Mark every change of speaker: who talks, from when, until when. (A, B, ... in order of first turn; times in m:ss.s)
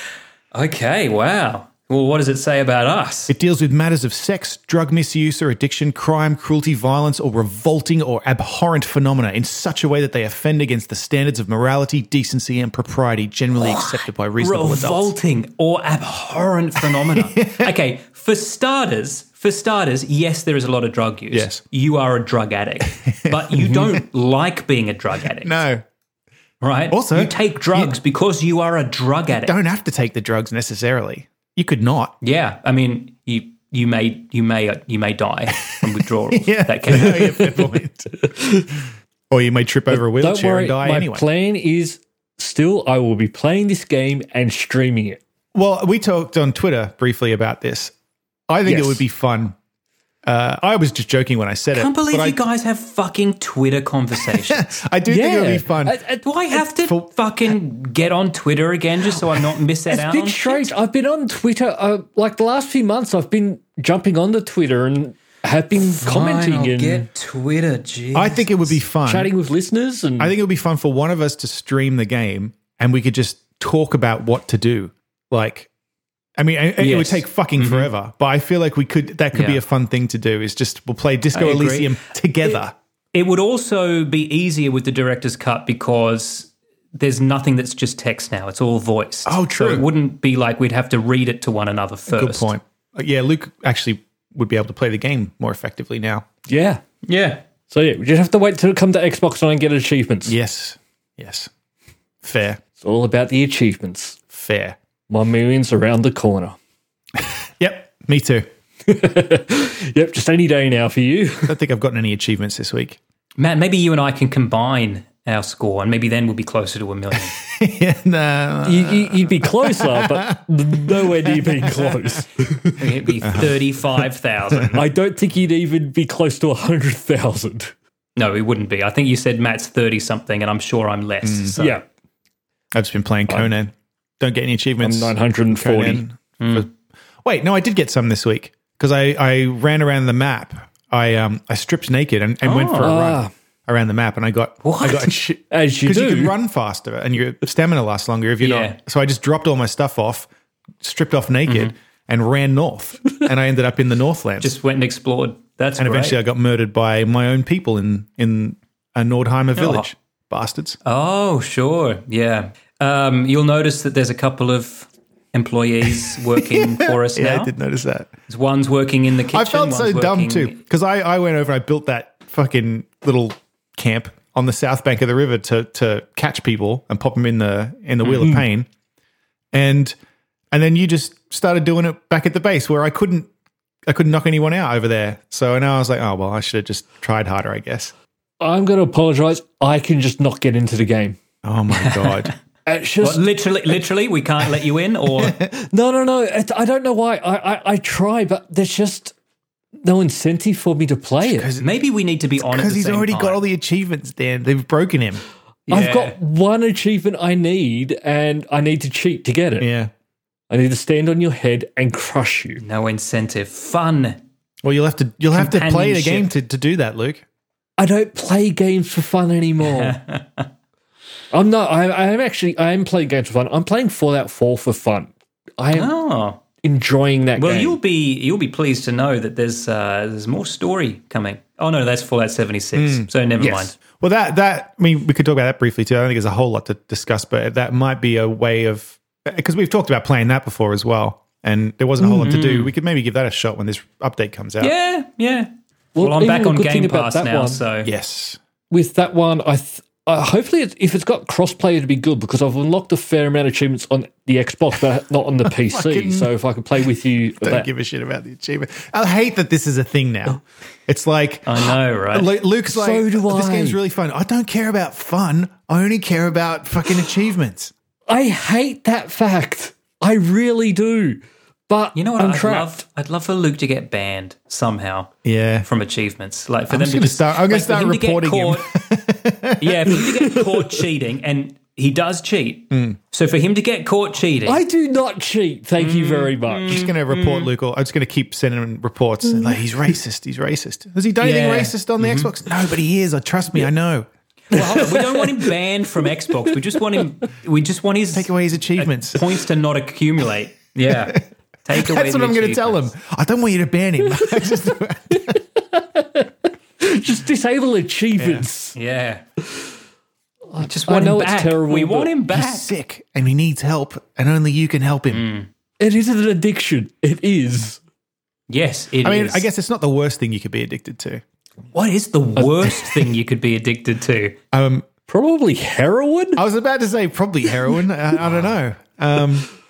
0:00.5-0:03.3 A
0:03.3-0:15.1 B
0:13.6-0:25.6 A
0:17.2-0:17.7 B
0:21.3-0:21.6 B
0:23.2-0:24.0 B
0:25.4-0:25.8 B
0:26.6-0:29.6 A
0:26.9-0:28.0 B
0:29.4-0:32.1 B
0:32.2-0:37.6 A
0:36.3-0:38.3 B
0:38.4-0:38.6 C
0:39.3-0:41.2 B
0:39.9-0:45.2 C
0:45.6-0:47.9 B
0:48.5-0:49.6 B
0:48.6-0:49.0 C
0:50.2-0:52.4 B
0:51.7-0:54.8 A
0:54.2-0:56.0 B
0:55.1-0:56.3 C
0:56.2-1:00.7 A
0:56.8-0:57.1 B
0:59.9-1:07.1 C
1:05.8-1:08.7 A
1:08.1-1:09.3 B
1:09.0-1:10.4 C
1:10.2-1:15.7 B
1:16.4-1:22.7 B
1:16.8-1:17.9 A
1:19.3-1:19.6 A
1:21.3-1:22.6 A
1:23.1-1:32.5 A
1:29.3-1:29.9 B
1:32.1-1:36.3 B
1:36.5-1:36.8 C
1:37.0-1:37.4 A
1:37.7-1:40.4 C
1:40.3-1:41.5 B
1:42.2-1:42.6 B
1:42.8-1:44.2 C
1:44.3-1:44.8 B
1:45.1-1:46.6 C
1:47.2-1:48.5 B
1:48.8-1:51.6 C
1:51.5-1:53.0 B
1:53.4-1:57.4 A
1:57.2-2:02.2 B
1:58.6-2:02.8 C
2:02.8-2:04.8 A
2:03.2-2:03.5 B
2:04.7-2:07.7 C
2:08.2-2:11.8 A
2:11.2-2:11.6 B
2:11.6-2:11.8 C
2:12.7-2:16.7 B
2:14.8-2:16.0 C
2:16.4-2:16.7 A
2:17.2-2:30.3 B
2:22.4-2:23.0 A
2:22.8-2:23.3 C
2:24.6-2:25.2 A
2:25.5-2:26.4 C
2:28.4-2:28.8 A
2:30.8-2:34.5 B
2:31.5-2:31.7 A
2:34.4-2:36.2 A
2:35.8-2:40.8 B
2:39.6-2:39.9 A
2:40.8-2:47.5 A
2:46.4-2:48.1 B
2:48.3-2:50.6 A
2:49.3-2:58.7 B
2:59.5-3:00.0 B
3:00.5-3:03.3 B
3:03.9-3:07.9 B
3:08.4-3:11.2 C
3:11.4-3:12.3 B
3:11.7-3:12.3 A
3:12.7-3:13.2 C
3:13.0-3:15.4 A
3:15.2-3:15.5 B
3:15.5-3:19.1 C
3:19.8-3:21.5 C
3:21.2-3:21.7 B
3:21.6-3:23.4 A
3:22.4-3:25.2 B
3:25.7-3:26.2 A
3:25.7-3:29.7 C
3:29.6-3:29.9 B
3:30.5-3:32.6 C
3:32.6-3:34.2 A
3:34.6-3:37.2 B
3:35.3-3:36.3 A
3:37.8-3:40.0 C
3:39.6-3:40.5 A
3:41.3-3:45.9 C
3:45.7-3:46.4 A
3:46.6-3:47.8 C
3:47.4-3:53.7 A
3:52.8-3:53.1 B
3:53.4-3:53.7 C
3:54.0-4:04.7 B
4:02.2-4:02.7 A
4:04.6-4:07.9 A
4:06.0-4:07.6 C
4:07.8-4:08.4 B
4:08.7-4:17.7 C
4:15.5-4:16.3 B
4:17.4-4:27.7 B
4:21.5-4:22.4 A
4:22.7-4:23.8 C
4:28.1-4:32.8 C
4:32.0-4:35.1 A
4:35.2-4:35.7 B
4:35.6-4:38.7 A
4:36.7-4:40.0 B
4:39.6-4:44.6 A
4:39.9-4:40.8 C
4:42.7-4:43.0 B
4:44.4-4:46.8 C
4:45.8-4:47.5 A
4:46.7-4:54.1 B
4:51.2-4:52.3 A
4:54.5-5:02.9 A
4:54.5-4:55.2 C
4:58.1-4:59.2 B
5:01.7-5:05.4 B
5:05.1-5:08.8 C
5:08.8-5:09.2 A
5:10.5-5:12.1 C
5:10.6-5:12.7 A
5:12.3-5:15.2 B
5:15.1-5:15.5 A
5:15.8-5:17.8 C
5:18.5-5:19.5 A
5:19.0-5:21.2 B
5:21.7-5:24.4 A
5:22.4-5:22.8 C
5:24.5-5:24.9 B
5:25.1-5:26.4 C
5:26.4-5:29.5 B